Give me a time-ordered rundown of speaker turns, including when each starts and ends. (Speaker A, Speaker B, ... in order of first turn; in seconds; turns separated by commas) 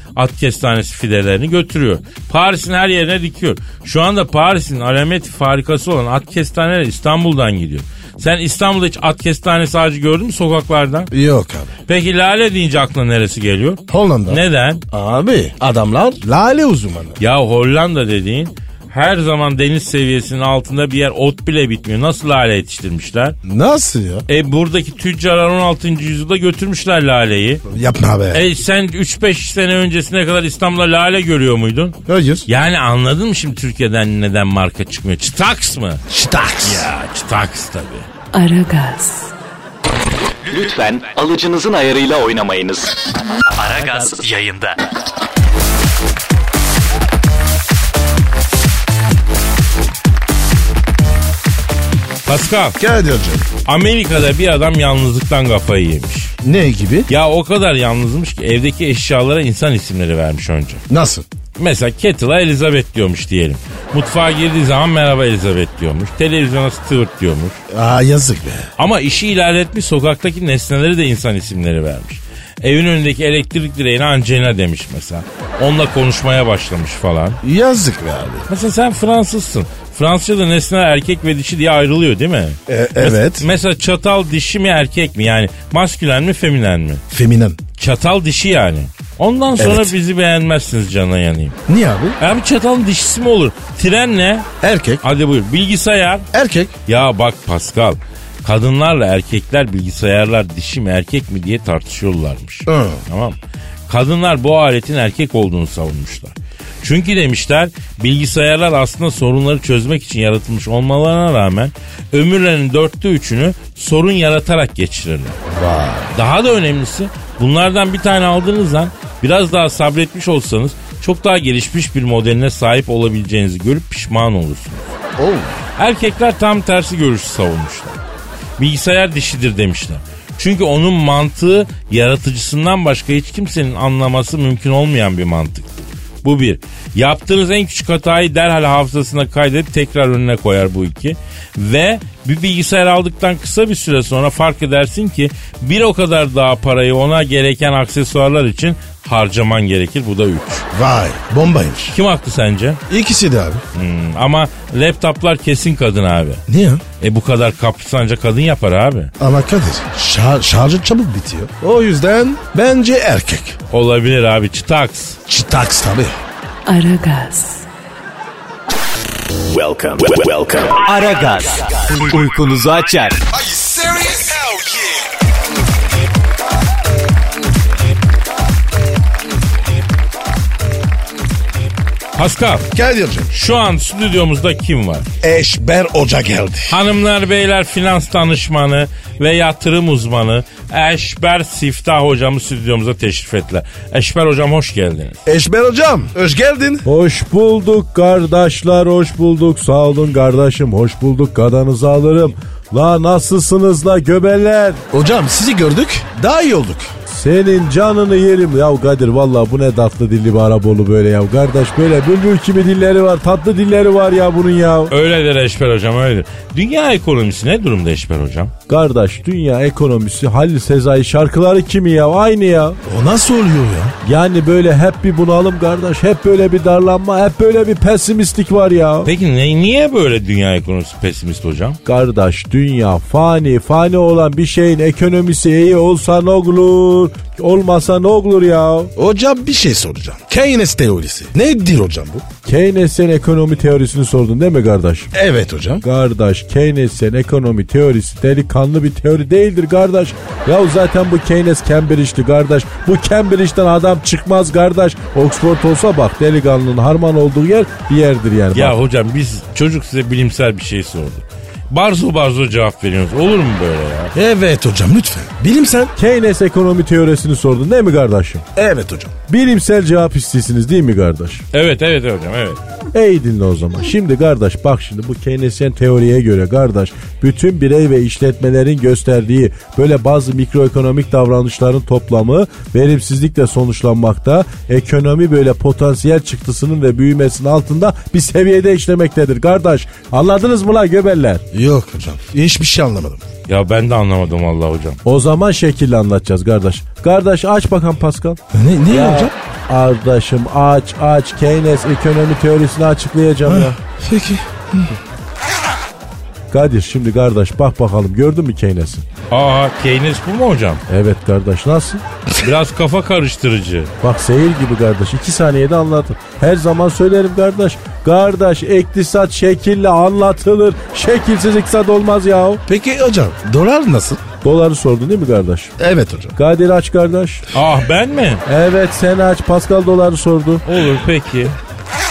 Speaker A: 0.1-11.1, Speaker B: 11.1-11.7, Speaker A: 11.9-14.8, Speaker B: 13.9-17.2, Speaker A: 17.2-23.4, Speaker B: 23.4-24.2, Speaker A: 24.3-27.6, Speaker B: 27.7-28.4, Speaker A: 28.3-36.0, Speaker B: 32.1-32.5, Speaker B: 36.1-36.9, Speaker A: 36.6-38.1, Speaker C: 38.3-39.3, Speaker D: 40.4-43.0, Speaker E: 43.5-44.8, Speaker A: 52.2-52.8, Speaker B: 52.8-53.5, Speaker A: 53.6-56.3, Speaker B: 56.4-57.1, Speaker A: 57.1-60.8, Speaker B: 60.9-61.2, Speaker A: 61.6-67.6, Speaker B: 67.7-68.7, Speaker A: 68.8-77.4, Speaker B: 77.4-78.5, Speaker A: 78.5-87.0, Speaker B: 82.7-83.5, Speaker B: 87.1-87.6, Speaker A: 87.8-91.6, Speaker B: 89.6-89.9, Speaker B: 91.7-92.2, Speaker A: 92.2-94.5, Speaker B: 94.6-95.0, Speaker A: 95.0-96.3, Speaker B: 96.3-96.7, Speaker A: 96.9-103.3, Speaker B: 102.7-103.0, Speaker A: 103.9-115.4, Speaker B: 115.5-116.1, Speaker A: 116.1-124.9, Speaker B: 125.2-125.6, Speaker A: 125.8-128.0, Speaker A: 128.6-150.7, Speaker B: 150.7-151.9, Speaker A: 151.9-152.8, Speaker B: 152.9-153.6, Speaker A: 153.7-156.4, Speaker B: 156.5-156.8, Speaker A: 157.0-159.1, Speaker B: 159.2-163.6, Speaker A: 163.7-165.2, Speaker B: 165.3-166.2, Speaker C: 166.7-167.7, Speaker D: 169.5-170.8, Speaker E: 170.8-173.2, Speaker B: 173.4-174.9, Speaker A: 182.2-182.7, Speaker B: 182.7-183.3, Speaker A: 183.3-185.1, Speaker B: 185.2-186.8, Speaker A: 186.7-195.2, Speaker B: 195.2-196.8, Speaker F: 196.8-204.8, Speaker B: 204.9-206.9, Speaker F: 207.1-214.9, Speaker A: 214.9-218.5, Speaker F: 218.7-222.8, Speaker B: 222.8-223.9, Speaker F: 224.0-229.1, Speaker A: 229.0-231.8, Speaker F: 231.8-238.9, Speaker B: 238.9-242.2, Speaker F: 242.4-245.1, Speaker B: 245.1-245.8, Speaker F: 245.8-258.8, Speaker A: 258.5-264.1, Speaker B: 264.1-265.9, Speaker F: 265.9-268.4, Speaker B: 268.6-269.1, Speaker F: 269.3-271.4, Speaker A: 271.5-272.6, Speaker F: 272.9-291.4, Speaker B: 291.5-293.2, Speaker A: 293.5-295.0, Speaker F: 295.0-303.8, Speaker B: 298.5-299.3, Speaker B: 303.4-305.0, Speaker F: 306.5-309.0, Speaker A: 309.3-310.8, Speaker F: 310.9-312.0, Speaker A: 312.4-313.9, Speaker F: 314.0-322.6, Speaker B: 322.7-324.2, Speaker F: 324.4-325.7, Speaker B: 325.8-326.3, Speaker F: 326.4-327.5, Speaker A: 327.5-328.4, Speaker F: 328.5-330.6, Speaker A: 330.6-331.6